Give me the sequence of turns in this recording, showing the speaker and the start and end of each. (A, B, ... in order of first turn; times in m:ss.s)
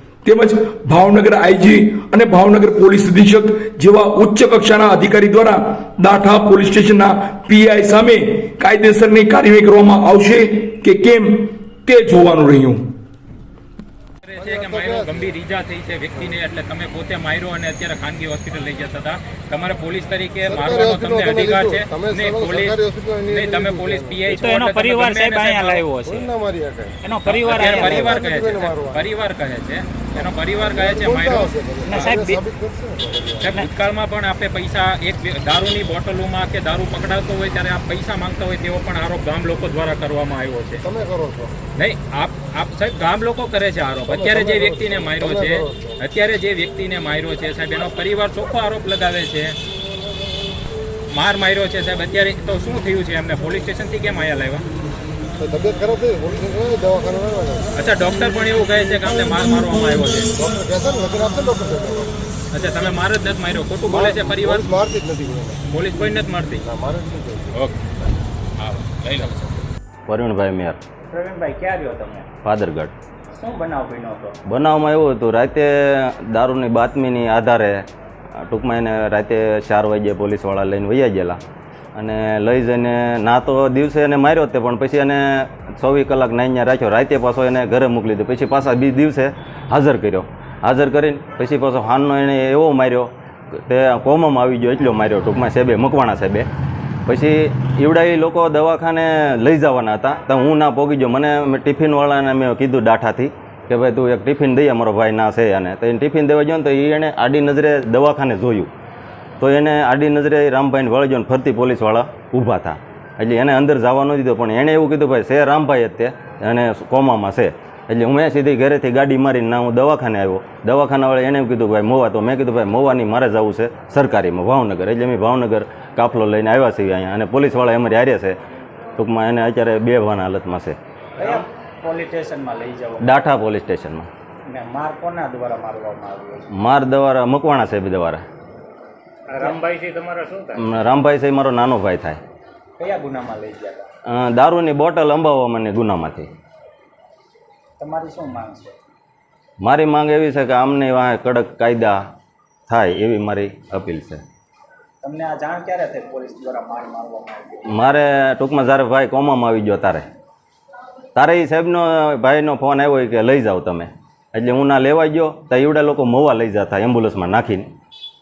0:00.2-0:12.8 A
0:14.2-0:25.8 B
0:14.4-0:15.3 C
0:20.5-0:24.3 C
0:24.3-0:26.3 D
0:26.0-0:27.0 C
0:27.0-0:28.2 D
0:27.2-0:32.1 B
0:27.9-0:29.0 C
0:30.1-0:33.5 C
0:31.8-0:32.4 D
0:33.4-0:40.8 B
0:40.8-0:41.5 C
0:41.8-0:49.6 B
0:44.1-0:46.0 C
0:51.1-0:54.6 B
0:55.4-0:57.7 C
0:57.8-1:00.3 B
1:00.4-1:02.2 C
1:02.5-1:04.7 B
1:03.9-1:05.6 C
1:05.7-1:06.6 B
1:06.6-1:07.6 C
1:07.5-1:07.8 B
1:08.6-1:09.6 B
1:10.1-1:10.8 E
1:11.1-1:12.3 D
1:12.4-1:12.9 E
1:13.3-1:14.4 D
1:14.5-1:17.8 E
1:18.4-1:21.4 E
1:21.9-1:36.5 E
1:37.1-1:48.7 E
1:49.4-2:08.4 E
2:09.0-2:11.4 E
2:11.2-2:13.3 D
2:13.0-2:14.1 E
2:14.5-2:16.5 D
2:16.5-2:18.2 E
2:19.3-2:20.4 D
2:20.5-2:22.2 E
2:22.8-2:23.9 D
2:24.1-2:26.3 E
2:27.8-2:28.8 D
2:29.6-2:32.0 E
2:32.7-2:34.2 E
2:35.0-2:37.8 D
2:37.7-2:40.0 E
2:41.1-2:47.7 E